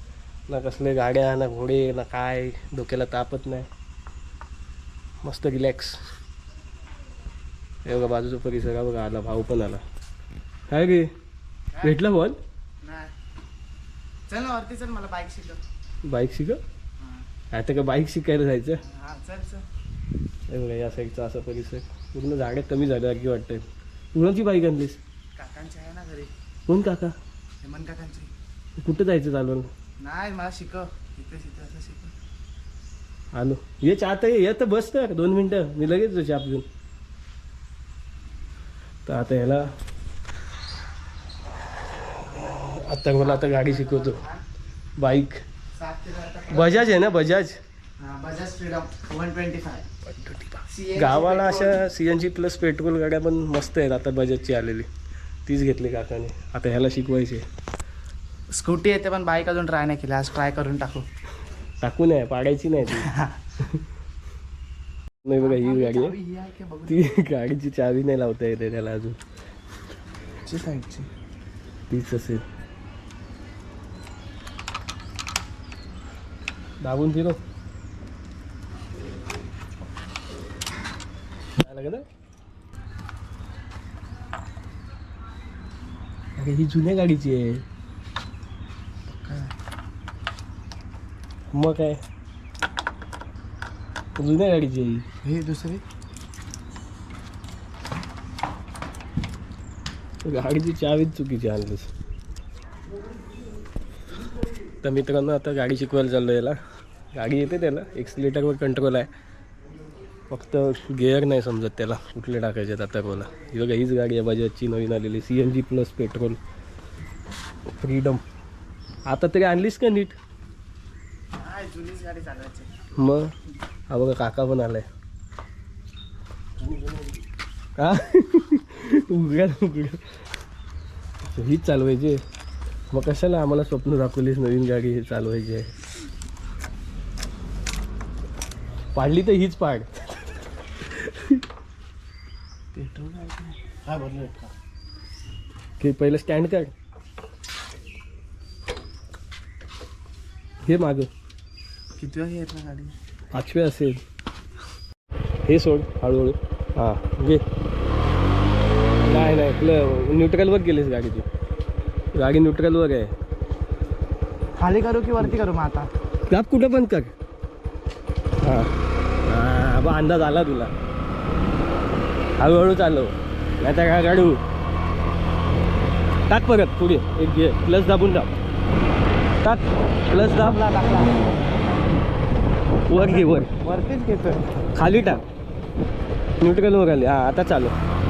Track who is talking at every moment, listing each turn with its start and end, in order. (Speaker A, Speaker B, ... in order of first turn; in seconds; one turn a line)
Speaker A: 0.5-3.7
Speaker A: 5.2-6.0
Speaker A: 7.8-9.8
Speaker A: 10.7-11.1
Speaker A: 11.8-12.4
Speaker B: 12.8-13.1
Speaker B: 14.3-15.6
Speaker A: 16.0-16.6
Speaker A: 17.5-18.8
Speaker B: 18.8-19.6
Speaker A: 20.5-25.0
Speaker B: 25.4-26.3
Speaker A: 26.7-27.1
Speaker B: 27.6-28.3
Speaker A: 28.8-29.7
Speaker B: 30.0-32.1
Speaker A: 33.3-36.6
Speaker A: 39.0-39.7
Speaker A: 42.5-44.2
Speaker B: 43.2-44.4
Speaker A: 45.0-45.4
Speaker B: 45.7-47.0
Speaker A: 46.5-47.6
Speaker B: 48.0-49.9
Speaker A: 50.0-54.9
Speaker B: 50.7-51.8
Speaker A: 55.5-57.4
Speaker B: 58.5-61.0
Speaker A: 61.8-63.8
Speaker B: 62.9-63.4
Speaker A: 65.2-66.2
Speaker B: 65.4-67.0
Speaker A: 66.8-69.2
Speaker B: 70.4-71.1
Speaker A: 71.9-72.4
Speaker A: 76.8-77.4
Speaker A: 81.6-82.0
Speaker A: 86.4-87.6
Speaker B: 89.1-89.5
Speaker A: 91.5-92.0
Speaker A: 94.2-95.0
Speaker B: 95.2-95.8
Speaker A: 100.2-101.9
Speaker A: 104.8-106.6
Speaker A: 107.1-109.1
Speaker A: 110.3-116.4
Speaker A: 117.7-118.2
Speaker A: 119.1-120.2
Speaker B: 121.3-122.8
Speaker A: 123.0-123.3
Speaker A: 123.9-124.9
Speaker A: 127.8-130.0
Speaker A: 131.2-132.2
Speaker A: 132.9-135.7
Speaker A: 138.9-140.1
Speaker A: 140.8-141.4
Speaker B: 142.7-144.3
Speaker A: 145.8-146.7
Speaker A: 150.7-151.1
Speaker B: 152.0-152.9
Speaker A: 153.3-154.0
Speaker A: 155.4-157.4
Speaker A: 159.0-161.3
Speaker A: 162.1-163.1
Speaker B: 164.6-165.9
Speaker A: 166.3-167.1
Speaker A: 168.4-168.7
Speaker A: 169.2-170.7
Speaker A: 172.4-174.4
Speaker A: 176.3-178.3
Speaker A: 179.4-180.6
Speaker B: 180.3-181.2
Speaker A: 182.9-183.5
Speaker B: 182.9-184.4
Speaker A: 184.7-185.2
Speaker A: 186.4-187.7